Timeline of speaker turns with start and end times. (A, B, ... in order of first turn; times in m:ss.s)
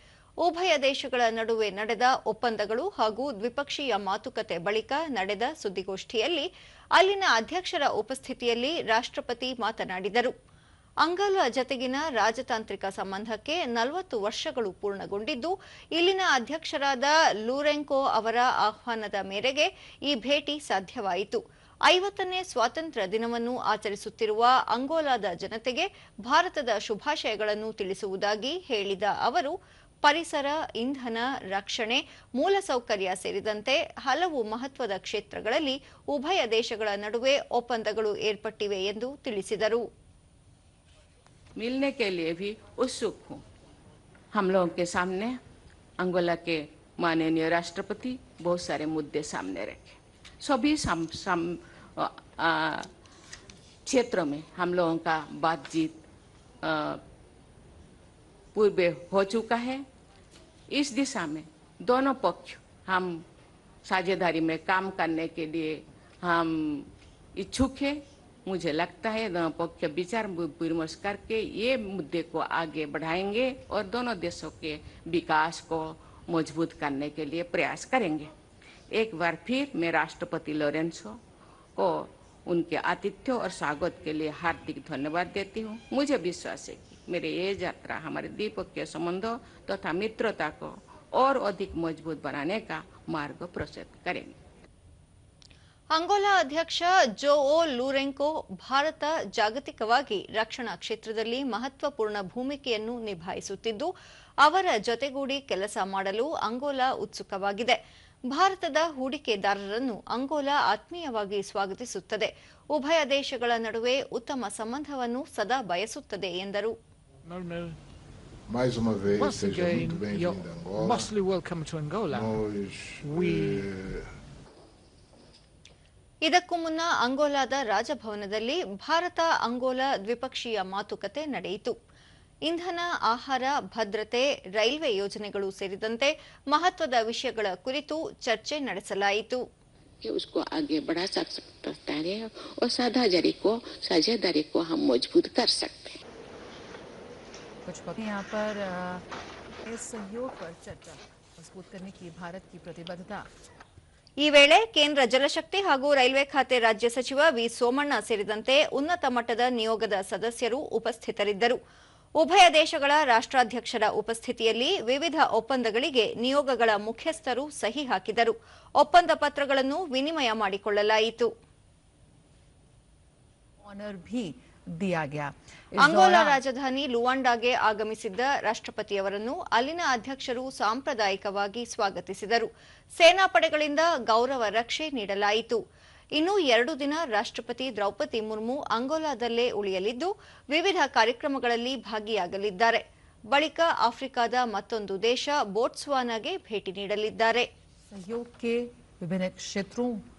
0:00.4-0:10.3 A
0:11.0-0:29.5 A
0:30.0-0:39.8 A
0:41.6-0:43.4 B
0:44.3-0:45.4 B
0:46.0-0:52.9 B
0:53.9-0:56.0 B
0:56.6-0:57.0 B
0:58.5-0:59.8 B
1:00.7-1:03.2 B
1:03.8-1:18.3 B
1:18.9-1:21.2 B
1:21.8-1:34.3 B
1:36.0-1:43.9 A
1:44.4-1:47.8 A
1:48.3-1:56.7 A
1:57.2-1:57.8 C
1:58.5-2:01.1 D
1:59.1-2:02.4 C
2:02.1-2:04.2 D
2:03.0-2:03.7 C
2:06.2-2:11.8 A
2:12.5-2:19.4 A
2:20.0-2:26.0 B
2:27.7-2:29.0 E
2:29.6-2:33.3 E
2:34.2-2:41.6 A
2:42.2-2:51.3 A
2:53.6-2:56.4 E
2:55.8-3:05.6 A
3:06.2-3:17.5 A
3:17.9-3:20.0 E